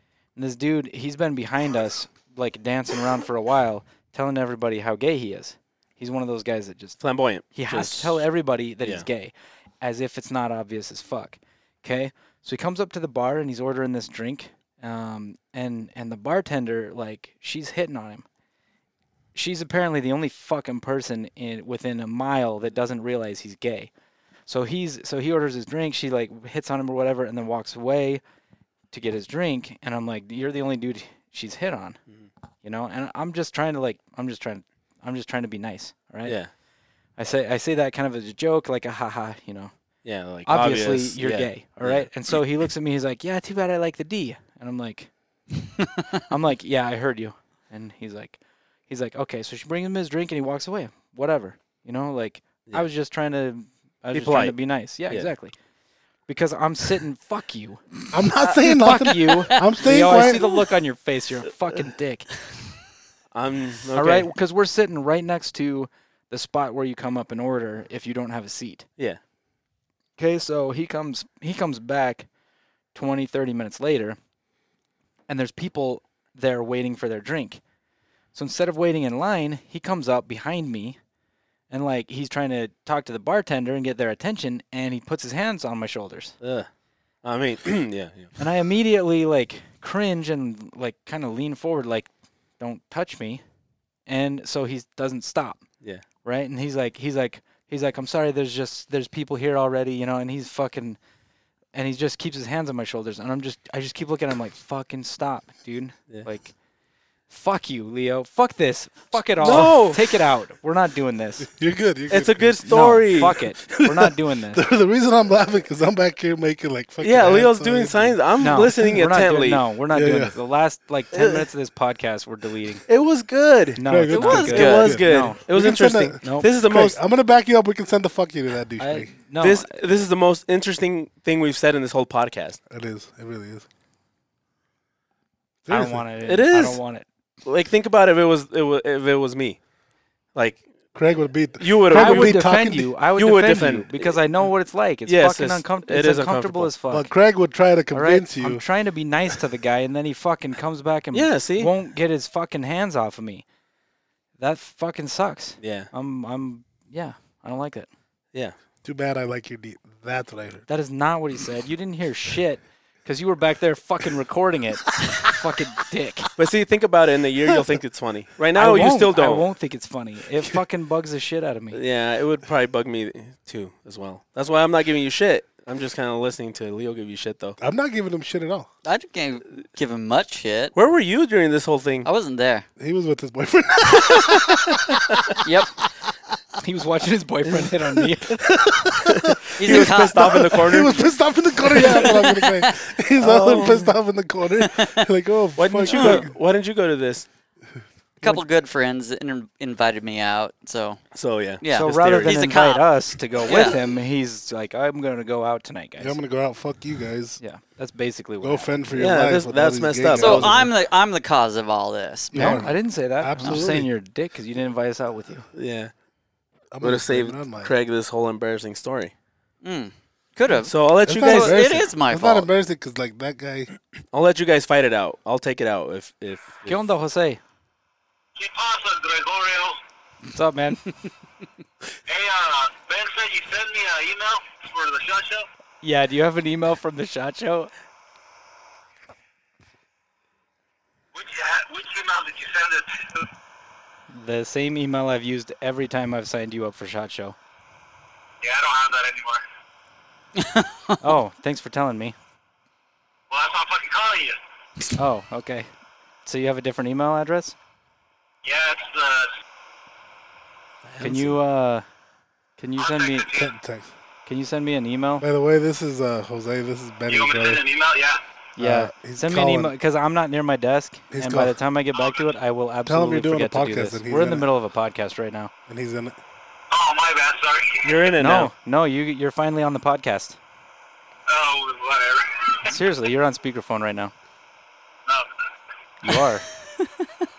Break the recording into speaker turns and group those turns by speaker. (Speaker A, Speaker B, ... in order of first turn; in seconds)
Speaker A: 0.4-18.2, 19.4-23.9, 24.5-28.2, 28.9-32.0, 32.6-36.4, 37.2-39.7, 40.5-45.1, 46.3-55.5, 56.3-58.0, 58.6-62.4, 64.0-68.9, 70.2-72.3, 72.9-74.2, 75.3-77.6, 78.3-81.0, 81.7-86.4, 88.4-93.4, 94.1-95.7, 96.2-101.0, 101.7-106.5, 107.3-111.5, 112.7-114.6, 118.4-122.8, 123.8-125.4, 128.8-129.8, 135.7-137.1, 141.9-147.1, 147.9-153.4, 154.4-157.9, 160.7-166.3, 168.5-171.8, 186.6-188.6, 201.7-206.2, 207.4-208.8, 212.3-215.5, 226.7-227.4, 230.2-230.9, 235.8-237.7, 244.1-247.4, 251.0-252.2, 255.0-255.7, 256.2-257.6, 261.0-261.9, 262.6-263.3, 264.3-265.3, 268.6-275.5, 278.2-280.4, 282.6-284.1, 286.0-286.5
Speaker B: 7.0-8.2, 36.2-36.5, 40.0-42.1, 54.1-55.3, 59.8-60.4, 63.3-64.3, 86.4-86.7, 87.2-88.4, 109.4-110.1, 112.1-113.4, 117.0-119.6, 121.1-121.5, 122.9-127.0, 129.4-132.6, 136.3-136.8, 137.4-139.6, 140.3-140.7, 141.6-142.4, 143.1-144.2, 145.1-146.7, 151.1-151.7, 155.6-155.9, 166.4-169.5, 171.7-177.6, 180.8-182.1, 189.1-191.1, 191.7-192.3, 193.2-193.9, 195.6-197.3, 201.2-202.4, 208.9-210.6, 215.5-215.9, 216.8-219.1, 220.7-221.7, 224.1-226.8, 260.8-261.4, 277.8-278.5
Speaker C: 58.1-60.4, 111.4-119.0, 119.9-120.3, 123.8-129.1, 132.7-133.7, 135.7-136.1, 140.9-142.9, 146.9-148.6, 158.8-160.6, 165.0-165.3, 167.5-167.8, 177.6-178.7, 182.8-185.4, 188.4-196.3, 206.0-207.4, 208.4-210.7, 212.3-213.9, 216.7-217.7, 221.1-223.7, 263.3-263.9, 265.2-267.6, 268.6-269.7, 271.1-271.6, 272.9-274.5, 275.7-276.2
Speaker D: 124.1-124.9, 178.8-180.8, 182.1-182.7, 185.4-185.8, 189.6-190.7, 191.8-192.7, 194.6-195.1, 195.8-196.2, 198.2-201.0, 201.6-202.8, 203.4-203.8, 210.2-212.7, 219.6-222.5, 250.4-251.0
Speaker E: 228.4-229.8, 232.1-235.5, 241.1-243.3, 248.4-249.4, 253.3-254.4, 258.4-259.3, 262.8-263.5, 267.1-268.2, 271.9-272.2, 276.7-278.1, 281.3-282.7